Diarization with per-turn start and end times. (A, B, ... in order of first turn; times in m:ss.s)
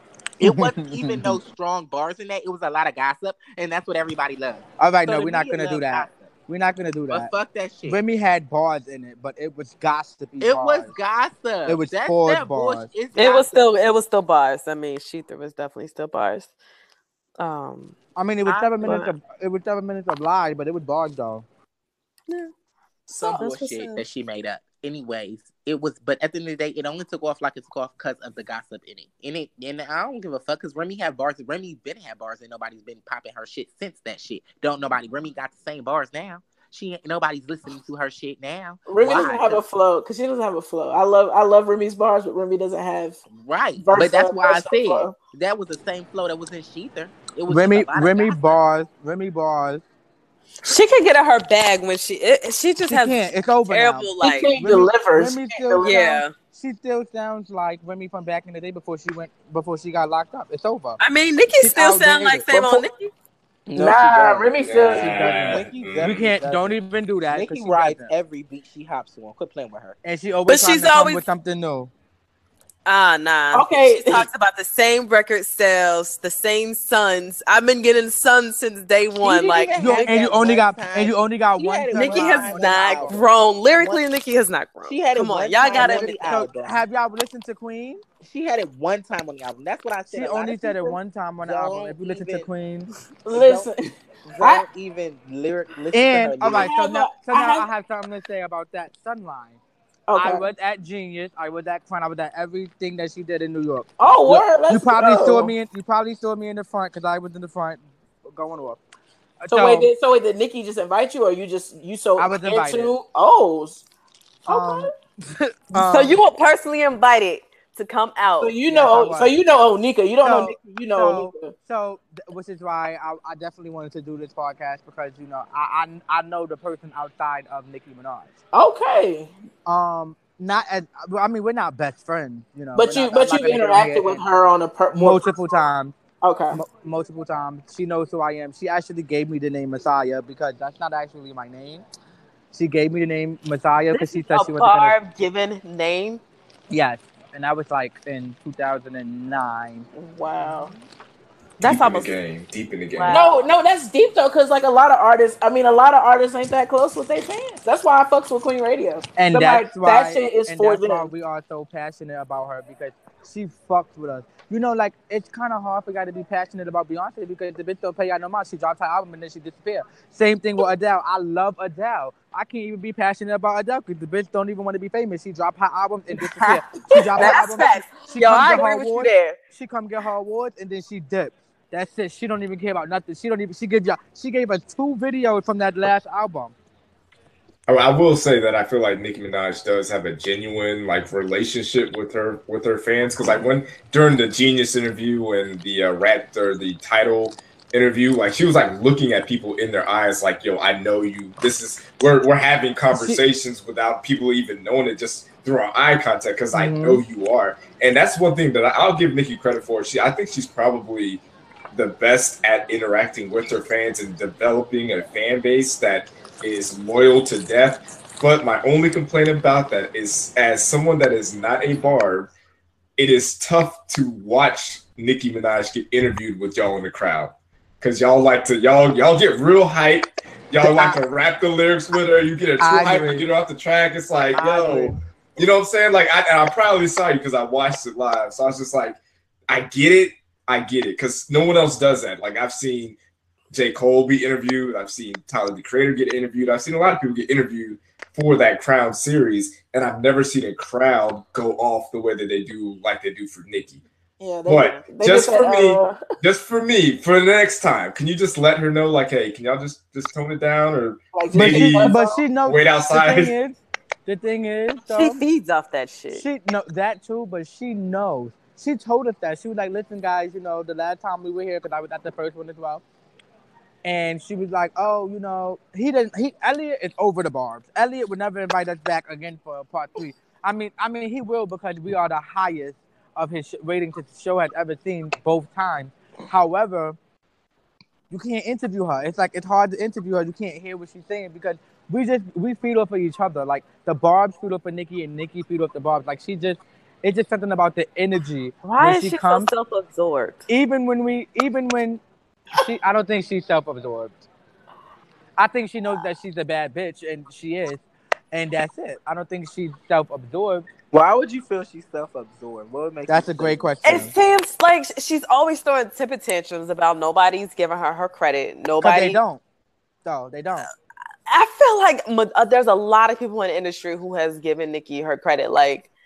0:00.4-0:06.3 A
0:00.4-0:01.4 B
0:04.8-0:07.3 B
0:07.1-0:08.0 A
0:07.8-0:10.9 B
0:10.4-0:13.7 A
0:11.6-0:12.9 B
0:13.1-0:16.5 C
0:17.4-0:18.0 C
0:18.2-0:21.4 B
0:18.4-0:19.0 A
0:18.8-0:19.1 C
0:23.1-0:24.0 C
0:23.2-0:23.4 D
0:23.2-0:39.6 A
0:38.9-0:43.2 D
0:43.3-0:48.6 A
0:43.8-0:45.1 D
0:47.5-0:49.8 B
0:50.6-0:54.5 C
0:52.8-0:55.9 B
0:54.2-0:56.2 D
0:55.8-0:56.3 C
0:56.5-1:01.0 B
1:01.0-1:02.9 C
1:01.6-1:02.8 B
1:03.7-1:10.0 A
1:03.7-1:05.3 D
1:04.6-1:06.3 E
1:04.9-1:08.1 B
1:10.0-1:11.9 B
1:10.5-1:11.2 C
1:12.8-1:20.2 C
1:13.5-1:14.3 D
1:19.2-1:24.0 A
1:19.8-1:23.1 B
1:21.9-1:26.2 C
1:24.8-1:26.8 A
1:25.7-1:28.0 B
1:28.2-1:32.5 A
1:30.1-1:32.9 B
1:33.2-1:33.8 D
1:33.3-1:33.7 A
1:34.2-1:36.7 A
1:34.4-1:34.6 D
1:35.9-1:39.6 B
1:36.5-1:37.7 D
1:40.1-1:40.5 D
1:40.2-1:48.8 B
1:44.0-1:45.5 D
1:49.4-1:49.9 B
1:49.5-1:53.8 D
1:52.2-1:52.9 B
1:54.5-1:56.2 B
1:54.5-1:54.9 D
1:55.7-1:58.6 C
1:58.4-2:01.5 D
1:58.7-1:59.4 B
2:00.2-2:08.3 B
2:08.5-2:09.3 D
2:09.6-2:14.2 B
2:12.7-2:15.3 D
2:14.9-2:15.9 B
2:16.2-2:16.6 D
2:16.5-2:21.8 B
2:22.5-2:25.0 B
2:23.9-2:26.2 C
2:26.7-2:30.6 B
2:29.9-2:30.7 D
2:31.6-2:33.3 E
2:31.6-2:32.0 C
2:31.6-2:32.1 B
2:32.9-2:33.4 C
2:33.1-2:41.1 D
2:39.2-3:06.5 B
2:56.4-2:59.4 C
2:57.1-2:57.6 D
3:07.7-3:42.3 E
3:22.9-3:23.2 B
3:26.5-3:27.0 B
3:43.0-4:03.0 E
3:50.6-3:51.0 B
3:52.6-3:53.2 B
3:54.3-3:55.0 B
4:03.5-4:13.8 E
4:14.2-4:16.0 D
4:14.4-4:23.3 E
4:21.1-4:22.2 D
4:21.3-4:25.2 B
4:24.9-4:26.2 C
4:26.1-4:32.8 B
4:33.8-4:47.0 B
4:48.1-4:59.5 B
4:58.6-5:00.4 C
5:00.5-5:02.0 B
5:02.6-5:04.2 B
5:05.4-5:10.7 B
5:10.9-5:13.8 A
5:13.1-5:14.1 B
5:13.8-5:19.2 C
5:18.8-5:19.4 B
5:20.0-5:20.7 B
5:21.3-5:25.9 C